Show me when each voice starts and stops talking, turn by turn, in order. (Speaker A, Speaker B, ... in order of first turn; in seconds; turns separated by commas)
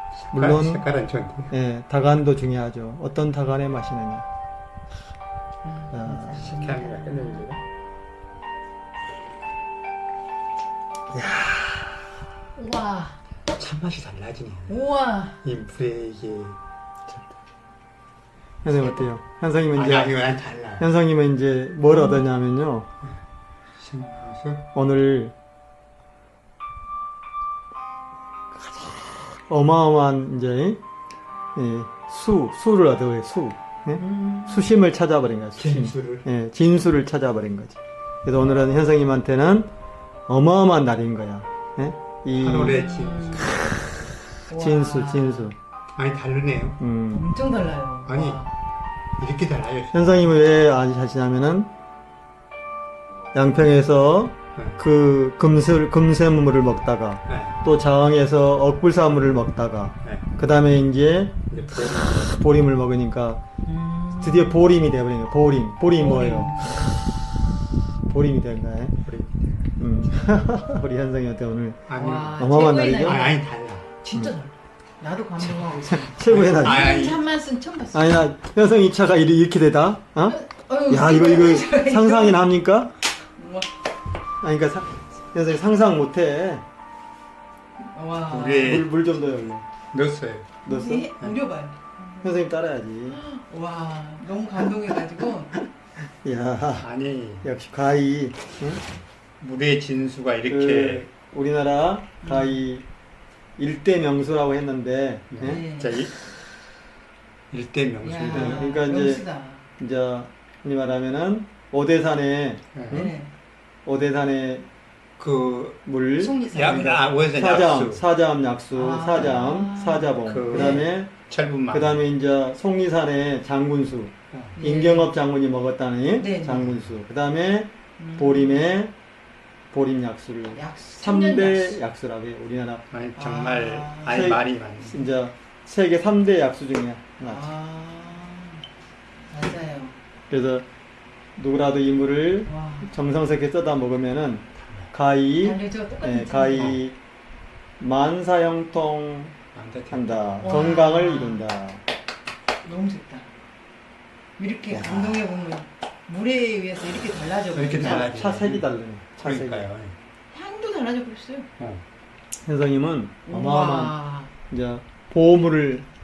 Speaker A: 0.3-1.5, Speaker B: 0.3-0.8, Speaker B: 1.5-4.2, Speaker C: 5.6-7.5, Speaker B: 5.9-6.5, Speaker A: 6.3-7.6, Speaker B: 11.1-12.0, Speaker C: 12.5-13.2, Speaker A: 13.5-14.8, Speaker C: 14.7-15.4, Speaker A: 15.4-16.6, Speaker B: 17.1-17.4, Speaker B: 18.6-20.2, Speaker C: 18.6-19.1, Speaker A: 19.7-20.9, Speaker B: 20.8-22.9, Speaker C: 21.9-22.2, Speaker A: 23.8-24.6, Speaker B: 24.7-25.3, Speaker B: 28.6-30.8, Speaker B: 31.5-39.7, Speaker C: 34.0-34.7, Speaker A: 35.6-36.2, Speaker B: 40.3-42.9, Speaker A: 42.4-43.5, Speaker C: 42.6-43.6, Speaker C: 44.5-45.5, Speaker B: 44.5-45.5, Speaker A: 46.0-46.8, Speaker B: 46.8-47.3, Speaker C: 47.1-48.5, Speaker A: 48.1-48.4, Speaker A: 49.2-50.3, Speaker B: 49.9-51.7, Speaker B: 53.3-63.4, Speaker A: 57.3-57.6, Speaker A: 61.5-62.3, Speaker C: 63.6-64.6, Speaker B: 64.2-67.0, Speaker C: 65.9-67.0, Speaker B: 68.0-69.0, Speaker A: 69.0-69.7, Speaker B: 69.8-73.2, Speaker A: 71.9-72.4, Speaker C: 71.9-73.4, Speaker A: 73.0-73.9, Speaker C: 74.0-78.3, Speaker B: 75.4-76.9, Speaker A: 76.2-77.2, Speaker B: 77.9-82.9, Speaker C: 80.2-82.5, Speaker C: 83.4-83.7, Speaker B: 84.4-86.6, Speaker C: 87.9-88.8, Speaker A: 88.3-88.9, Speaker B: 88.5-89.7, Speaker A: 89.9-90.6, Speaker B: 90.7-91.1, Speaker C: 90.7-92.3, Speaker B: 92.2-93.2, Speaker C: 93.1-95.5, Speaker B: 96.2-96.9, Speaker A: 96.8-97.5, Speaker B: 97.4-98.8, Speaker A: 99.4-101.1, Speaker B: 100.5-102.8, Speaker C: 102.2-102.6, Speaker B: 103.6-105.6, Speaker A: 105.3-106.2, Speaker C: 105.4-106.0, Speaker A: 107.5-108.7, Speaker C: 108.0-109.7, Speaker B: 108.3-109.2, Speaker B: 109.8-113.1, Speaker A: 112.7-113.1, Speaker C: 112.9-113.3, Speaker B: 113.8-114.7, Speaker A: 115.2-115.8, Speaker B: 115.8-116.4, Speaker C: 116.2-117.1, Speaker A: 116.5-118.0, Speaker B: 117.3-121.2, Speaker C: 118.7-120.9, Speaker A: 120.2-122.0, Speaker B: 121.7-128.9, Speaker C: 124.6-125.1, Speaker C: 126.2-126.7, Speaker C: 128.0-128.6, Speaker B: 129.7-132.8, Speaker C: 130.5-131.8, Speaker A: 132.9-135.0, Speaker C: 133.2-134.2, Speaker B: 134.1-137.5, Speaker C: 137.2-138.6, Speaker C: 139.3-140.0, Speaker B: 140.3-140.7, Speaker B: 141.3-147.0, Speaker C: 142.4-142.9, Speaker A: 144.6-144.9, Speaker C: 145.4-146.8, Speaker B: 147.8-149.3, Speaker A: 149.5-150.6, Speaker B: 149.9-151.8, Speaker C: 150.4-151.4, Speaker C: 152.6-153.3, Speaker C: 154.4-158.1, Speaker A: 154.7-155.3, Speaker A: 157.5-158.7, Speaker B: 157.8-159.7, Speaker A: 159.2-160.0, Speaker C: 160.3-161.5, Speaker A: 161.6-161.8, Speaker B: 162.4-164.0, Speaker C: 163.2-164.3, Speaker B: 164.5-165.9